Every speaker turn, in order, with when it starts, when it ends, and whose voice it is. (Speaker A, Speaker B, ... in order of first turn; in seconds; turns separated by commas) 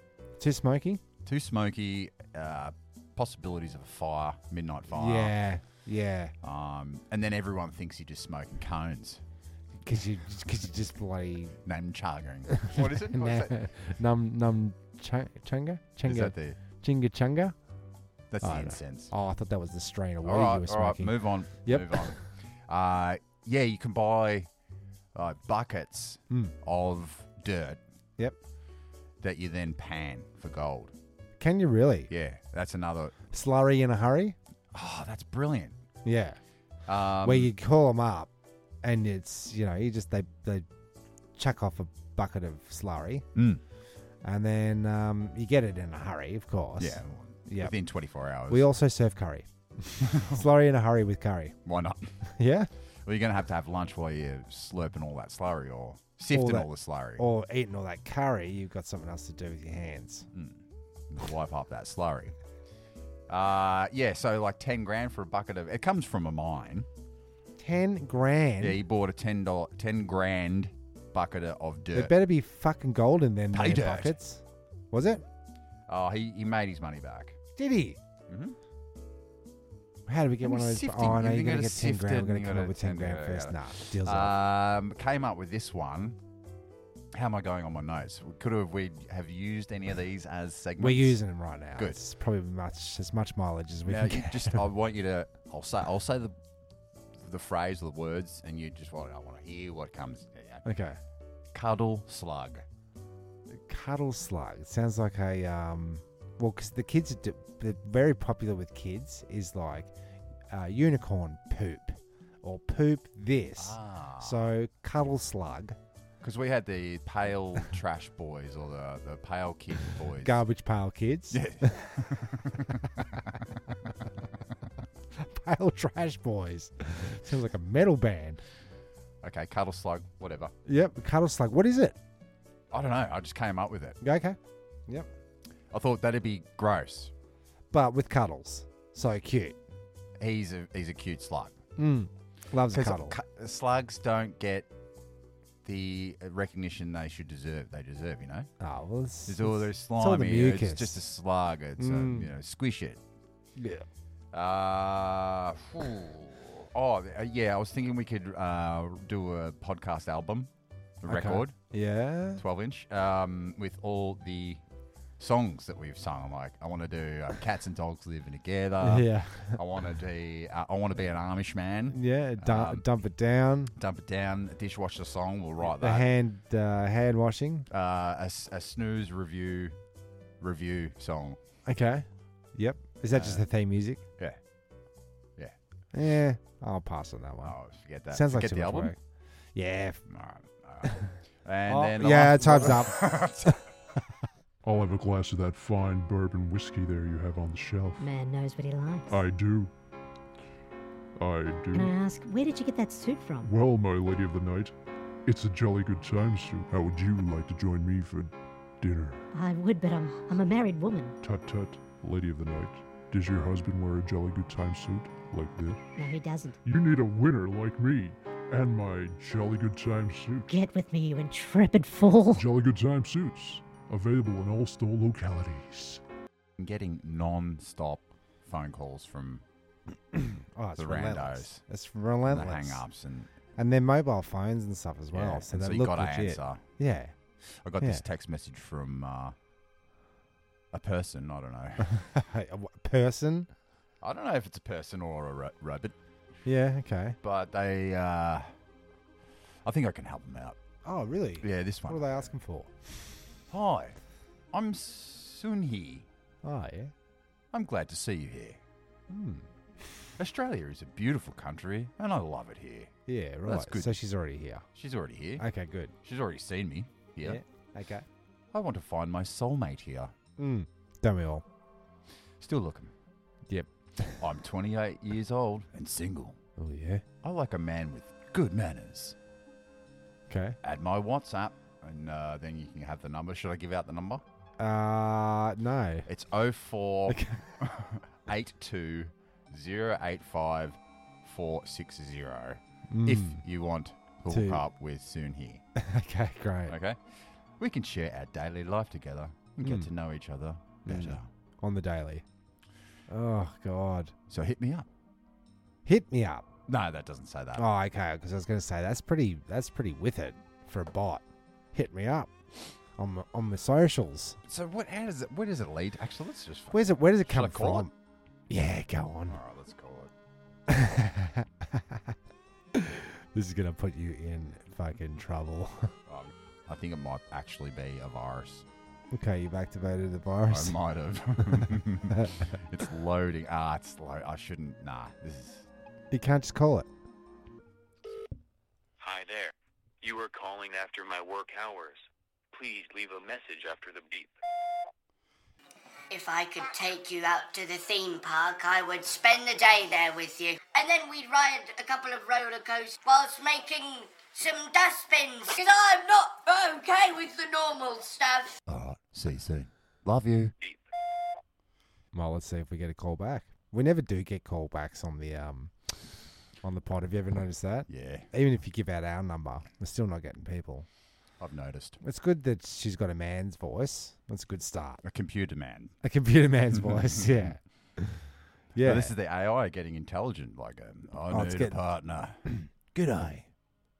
Speaker A: 0.4-1.0, Speaker B: 1.2-5.3, Speaker A: 4.9-6.3, Speaker B: 6.4-9.2, Speaker A: 9.8-11.6, Speaker B: 11.6-13.5, Speaker A: 12.6-17.5, Speaker B: 16.0-16.6, Speaker B: 18.3-19.1, Speaker A: 18.4-22.2, Speaker B: 20.2-24.5, Speaker B: 25.1-27.8, Speaker B: 29.2-30.9, Speaker A: 31.4-32.1, Speaker B: 32.1-33.1, Speaker A: 33.3-34.4, Speaker B: 34.7-35.8, Speaker A: 36.0-36.4, Speaker B: 36.9-37.5, Speaker A: 37.2-38.3, Speaker A: 38.8-40.6, Speaker A: 41.4-43.3, Speaker B: 43.3-43.6, Speaker A: 44.2-47.7, Speaker B: 46.8-48.7, Speaker A: 48.5-51.6, Speaker B: 50.0-50.5, Speaker B: 51.6-52.1, Speaker A: 52.4-52.7, Speaker B: 53.0-57.3, Speaker A: 56.3-60.3, Speaker B: 60.3-62.3, Speaker B: 63.3-66.9, Speaker A: 67.6-68.8, Speaker B: 68.6-72.1, Speaker A: 71.9-75.2, Speaker B: 73.5-74.2, Speaker B: 75.9-77.4, Speaker A: 77.6-78.0, Speaker B: 78.3-78.5, Speaker A: 80.1-84.3, Speaker B: 80.4-86.2, Speaker B: 87.1-91.2, Speaker A: 90.8-94.6, Speaker B: 91.7-92.0, Speaker B: 93.8-96.3, Speaker B: 97.2-100.6, Speaker A: 100.6-101.0, Speaker B: 101.5-102.6, Speaker A: 103.5-109.9, Speaker A: 110.5-115.8, Speaker B: 113.5-114.5, Speaker B: 116.2-120.4, Speaker A: 120.2-122.0, Speaker B: 121.3-122.8, Speaker A: 125.2-128.4, Speaker B: 129.2-130.5, Speaker A: 130.7-132.0, Speaker B: 132.7-134.0, Speaker A: 134.0-135.1, Speaker B: 135.7-137.1, Speaker A: 137.7-139.6, Speaker B: 140.2-141.6, Speaker A: 141.8-143.2, Speaker B: 142.7-144.7, Speaker B: 145.6-148.5, Speaker A: 148.6-151.0, Speaker B: 149.2-153.0, Speaker A: 151.8-152.3, Speaker A: 153.6-153.8, Speaker B: 154.3-160.5, Speaker B: 161.0-161.6, Speaker A: 161.1-162.4, Speaker B: 162.3-164.6, Speaker B: 165.2-172.8, Speaker A: 168.8-169.6, Speaker A: 171.9-173.7, Speaker B: 173.8-176.1, Speaker A: 175.6-177.7, Speaker B: 177.7-179.8, Speaker B: 180.4-181.4, Speaker A: 181.7-184.0, Speaker B: 183.1-183.5, Speaker A: 185.9-187.6, Speaker B: 187.4-188.9, Speaker A: 188.1-189.0, Speaker A: 189.5-190.0, Speaker B: 190.1-193.6, Speaker A: 191.7-193.6, Speaker C: 194.6-198.0, Speaker D: 198.0-199.1, Speaker C: 199.1-199.7, Speaker C: 201.2-201.9, Speaker D: 201.7-203.5, Speaker C: 203.4-204.7, Speaker C: 205.2-209.2, Speaker D: 209.3-211.2, Speaker C: 211.2-215.8, Speaker D: 216.0-216.6, Speaker C: 216.6-220.5, Speaker D: 220.5-222.4, Speaker C: 222.3-226.0, Speaker B: 226.6-229.4, Speaker A: 230.1-232.8, Speaker B: 230.8-231.6, Speaker B: 232.2-233.3, Speaker A: 233.6-237.2, Speaker B: 235.1-236.6, Speaker B: 237.5-239.3, Speaker B: 240.7-241.9, Speaker A: 241.9-243.5, Speaker B: 244.0-245.9, Speaker A: 246.4-247.2, Speaker B: 247.2-248.5, Speaker B: 249.6-250.6, Speaker A: 250.8-253.1, Speaker B: 251.4-252.3, Speaker B: 253.5-254.0, Speaker B: 254.5-256.1, Speaker A: 256.4-256.9, Speaker B: 257.5-258.6, Speaker A: 259.1-259.5, Speaker B: 260.2-262.9, Speaker A: 263.1-264.6, Speaker B: 263.4-264.0, Speaker B: 264.7-265.4, Speaker A: 265.4-265.9, Speaker B: 266.0-267.4, Speaker A: 267.2-268.0, Speaker B: 268.5-270.1, Speaker A: 270.4-271.4, Speaker B: 272.4-272.9, Speaker A: 273.5-274.2, Speaker B: 274.2-276.4, Speaker A: 276.6-277.0, Speaker B: 277.2-279.1, Speaker A: 280.3-280.6, Speaker B: 280.6-284.2, Speaker A: 284.6-286.1, Speaker B: 286.1-295.6, Speaker A: 287.1-287.6, Speaker A: 292.9-293.4, Speaker A: 294.3-294.6, Speaker A: 295.8-296.8, Speaker B: 296.7-301.3, Speaker A: 299.6-299.9, Speaker A: 300.8-302.2, Speaker A: 303.1-304.1, Speaker B: 304.3-304.9, Speaker A: 305.8-306.5, Speaker B: 306.7-307.6, Speaker A: 307.5-312.3, Speaker A: 312.9-314.4, Speaker B: 314.4-317.9, Speaker A: 316.7-317.9, Speaker A: 318.5-319.4, Speaker B: 319.3-320.1, Speaker A: 320.7-322.1, Speaker A: 322.7-325.9, Speaker B: 326.1-328.6, Speaker A: 329.1-330.8, Speaker B: 330.5-335.7, Speaker A: 331.4-331.7, Speaker A: 336.1-336.9, Speaker E: 339.0-339.5, Speaker E: 340.0-341.9, Speaker E: 342.5-344.3, Speaker F: 346.1-358.6, Speaker B: 358.7-360.5, Speaker A: 362.1-366.0, Speaker A: 366.6-370.9, Speaker B: 367.9-368.3, Speaker B: 371.4-372.0, Speaker A: 372.0-375.0, Speaker B: 375.0-375.9, Speaker A: 376.0-378.2, Speaker B: 376.8-377.5, Speaker A: 378.7-379.1, Speaker B: 378.8-382.4, Speaker A: 381.3-381.8, Speaker A: 382.5-383.5